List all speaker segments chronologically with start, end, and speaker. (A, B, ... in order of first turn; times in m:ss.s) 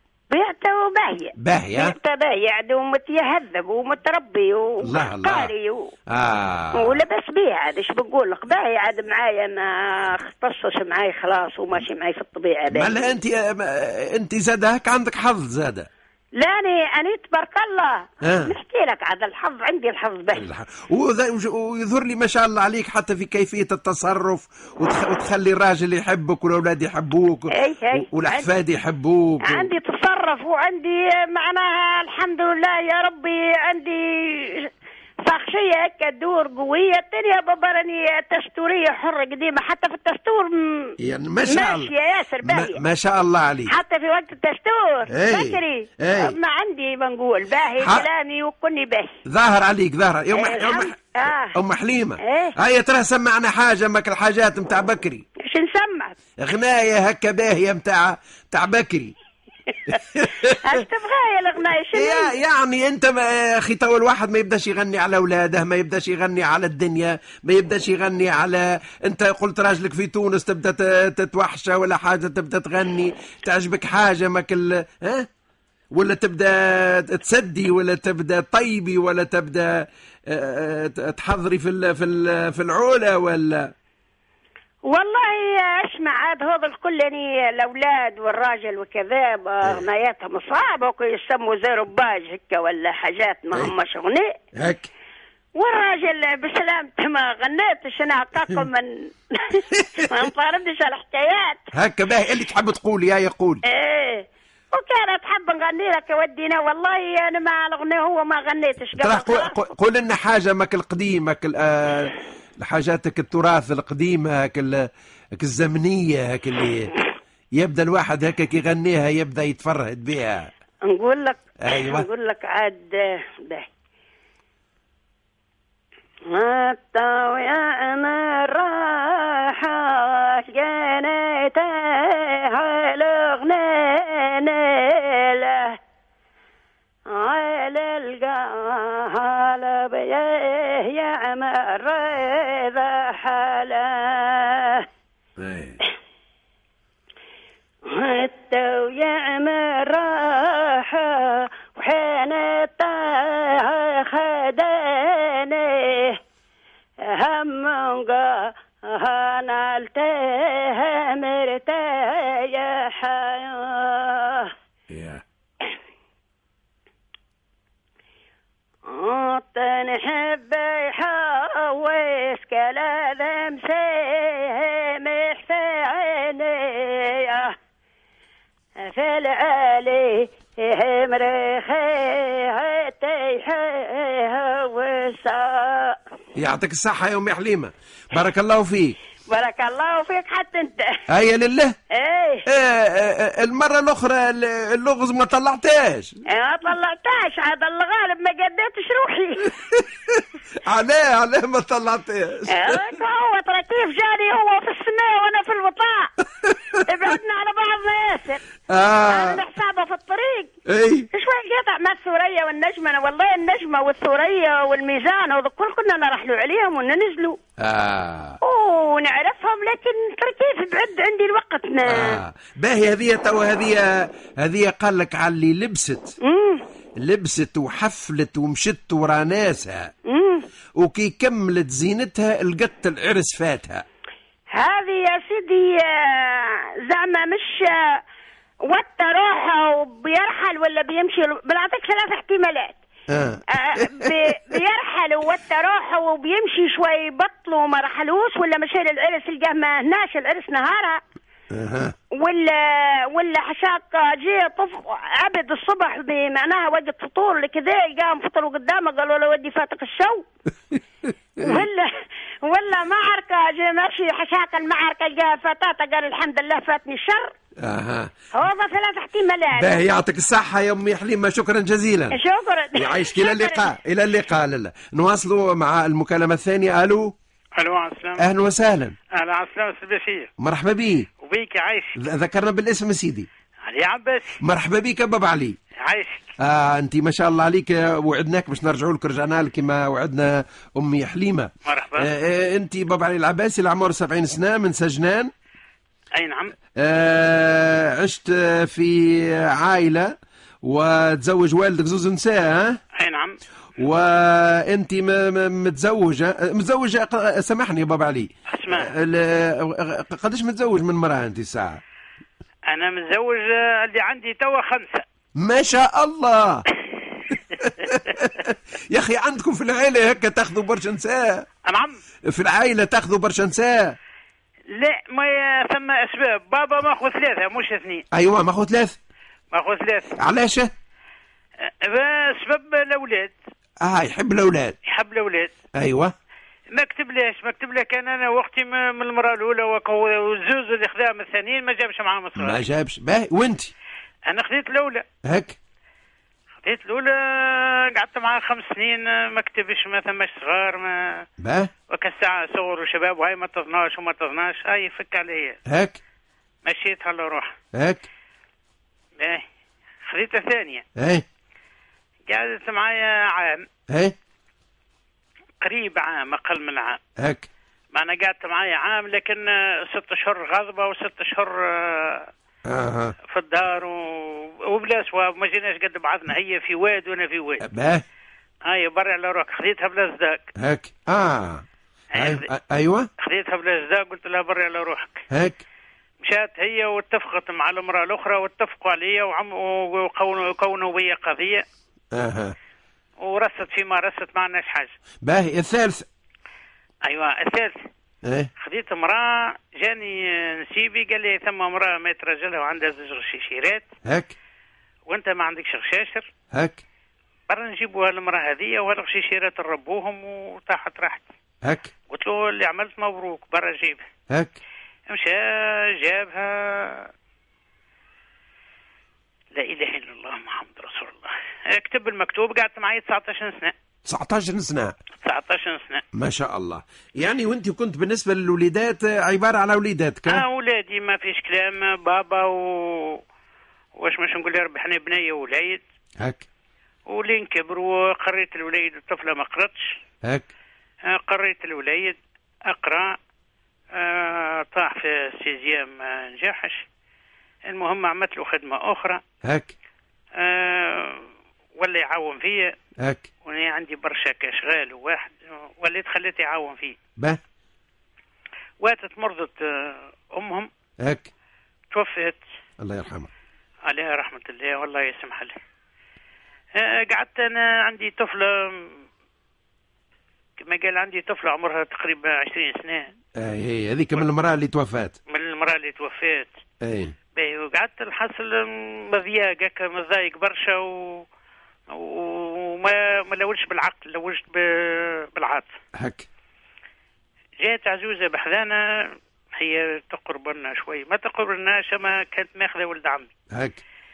0:00.3-0:05.9 A
0:01.4-0:01.9 B
0:04.8-0:05.5 B
0:06.1-0:07.0 B
0:06.7-0:13.1 A
0:12.7-0:15.9 B
0:16.4-0:20.4 A
0:18.2-0:18.5 B
0:20.3-0:29.7 B
0:27.5-0:28.5 A
0:29.4-0:34.7 A
0:35.2-0:42.8 A
0:41.0-0:43.7 B
0:43.7-0:49.2 A
0:45.1-0:46.3 B
0:47.8-0:48.1 B
0:49.2-0:55.2 B
0:50.3-0:51.6 A
0:52.2-0:52.6 A
0:55.4-0:56.2 A
0:56.4-0:59.1 B
0:59.7-1:02.3 A
0:59.9-1:00.8 B
1:01.9-1:15.3 B
1:15.9-1:23.7 B
1:24.8-1:34.4 A
1:34.5-1:34.9 B
1:35.6-1:41.6 A
1:39.7-1:40.2 B
1:41.7-1:43.6 B
1:43.6-1:49.6 A
1:49.0-1:56.9 B
1:57.5-2:00.5 B
2:00.9-2:03.7 A
2:01.6-2:02.1 B
2:06.3-2:15.8 A
2:17.1-2:24.8 A
2:25.4-2:25.8 B
2:27.8-2:36.2 A
2:37.0-2:44.5 A
2:44.9-2:45.2 B
2:48.8-2:57.5 A
2:58.8-3:06.0 A
3:06.3-3:09.0 B
3:09.3-3:11.0 A
3:11.1-3:11.8 B
3:11.9-3:12.4 A
3:12.4-3:16.2 B
3:16.3-3:19.6 A
3:19.7-3:22.9 B
3:22.5-3:26.1 A
3:26.4-3:26.8 B
3:26.8-3:28.4 A
3:28.7-3:29.4 B
3:29.1-3:30.5 A
3:30.6-3:31.1 B
3:31.1-3:37.4 A
3:37.6-3:38.4 B
3:38.4-3:42.2 A
3:41.8-3:46.1 B
3:46.2-3:46.6 A
3:47.0-3:49.9 B
3:50.1-3:50.4 A
3:50.8-3:53.8 B
3:54.5-3:58.0 A
3:58.6-4:02.8 A
4:03.1-4:04.6 B
4:03.5-4:11.0 A
4:11.5-4:11.9 B
4:12.1-4:20.3 A
4:21.0-4:21.6 B
4:21.4-4:27.3 A
4:27.6-4:28.1 B
4:28.3-4:29.8 A
4:29.6-4:32.2 B
4:32.1-4:33.7 A
4:32.7-4:37.1 B
4:37.6-4:38.2 C
4:38.2-4:39.0 B
4:39.1-4:40.3 C
4:40.4-4:41.1 B
4:41.2-4:42.0 C
4:42.0-4:43.3 B
4:43.6-4:44.4 C
4:44.4-4:45.6 B
4:45.8-4:46.3 C
4:46.4-4:55.3 B
4:51.6-4:52.1 C
4:56.1-4:56.5 C
4:56.8-5:02.8 B
5:02.9-5:03.4 C
5:03.8-5:11.8 B
5:08.5-5:08.9 C
5:12.7-5:15.0 C
5:15.4-5:16.6 B
5:17.5-5:18.0 C
5:17.6-5:21.4 B
5:21.6-5:22.0 C
5:22.2-5:24.0 B
5:24.7-5:28.0 C
5:28.1-5:29.0 B
5:29.5-5:30.2 C
5:30.2-5:30.7 B
5:31.6-5:33.3 C
5:33.8-5:34.8 B
5:34.8-5:35.5 C
5:35.7-5:36.1 B
5:36.7-5:42.6 C
5:42.4-5:43.7 B
5:44.2-5:45.0 C
5:45.2-5:45.6 B
5:46.6-5:51.2 C
5:51.4-5:51.7 B
5:51.9-5:55.6 C
5:55.7-5:56.0 B
5:56.6-5:57.5 C
5:57.7-5:58.0 B
5:59.2-5:59.4 C
6:00.0-6:00.8 C
6:01.0-6:01.2 B
6:02.2-6:03.7 C
6:03.9-6:04.2 B
6:05.6-6:07.0 C
6:07.2-6:07.5 B
6:07.9-6:12.3 C
6:12.6-6:13.2 B
6:13.3-6:17.6 C
6:17.6-6:18.0 B
6:18.6-6:20.5 C
6:20.6-6:21.6 B
6:22.2-6:22.4 C
6:22.2-6:23.1 B
6:23.2-6:25.2 C
6:25.3-6:25.6 B
6:26.2-6:31.6 C
6:32.1-6:32.5 B
6:33.2-6:34.9 C
6:35.2-6:36.1 B
6:37.0-6:37.8 C
6:38.2-6:38.5 B
6:38.6-6:43.9 C
6:44.0-6:44.3 B
6:45.1-6:46.3 C
6:46.5-6:46.8 B
6:47.5-6:51.3 C
6:51.6-6:51.9 B
6:52.1-6:54.0 C
6:54.3-6:54.6 B
6:55.1-6:57.1 C
6:59.5-7:03.7 C
7:04.0-7:05.0 B
7:05.2-7:06.0 C
7:06.1-7:10.4 B
7:10.3-7:13.2 C
7:14.0-7:15.8 C
7:16.2-7:16.4 B
7:17.1-7:19.9 C
7:21.0-7:23.2 C
7:23.9-7:26.8 C
7:27.6-7:29.2 C
7:29.4-7:29.7 B
7:30.3-7:31.2 C
7:31.8-7:32.7 C
7:33.0-7:33.3 B
7:33.4-7:37.0 C
7:38.8-7:40.7 C
7:41.0-7:41.3 B
7:41.9-7:42.4 C
7:42.8-7:43.3 B
7:43.8-7:45.6 C
7:46.7-7:49.0 C
7:50.6-7:53.1 C
7:53.4-7:55.2 B
7:55.3-7:56.6 C
7:56.8-7:57.2 B
7:57.3-8:01.2 C
8:01.9-8:05.7 C
8:05.9-8:06.3 B
8:07.6-8:13.3 C
8:13.5-8:13.8 B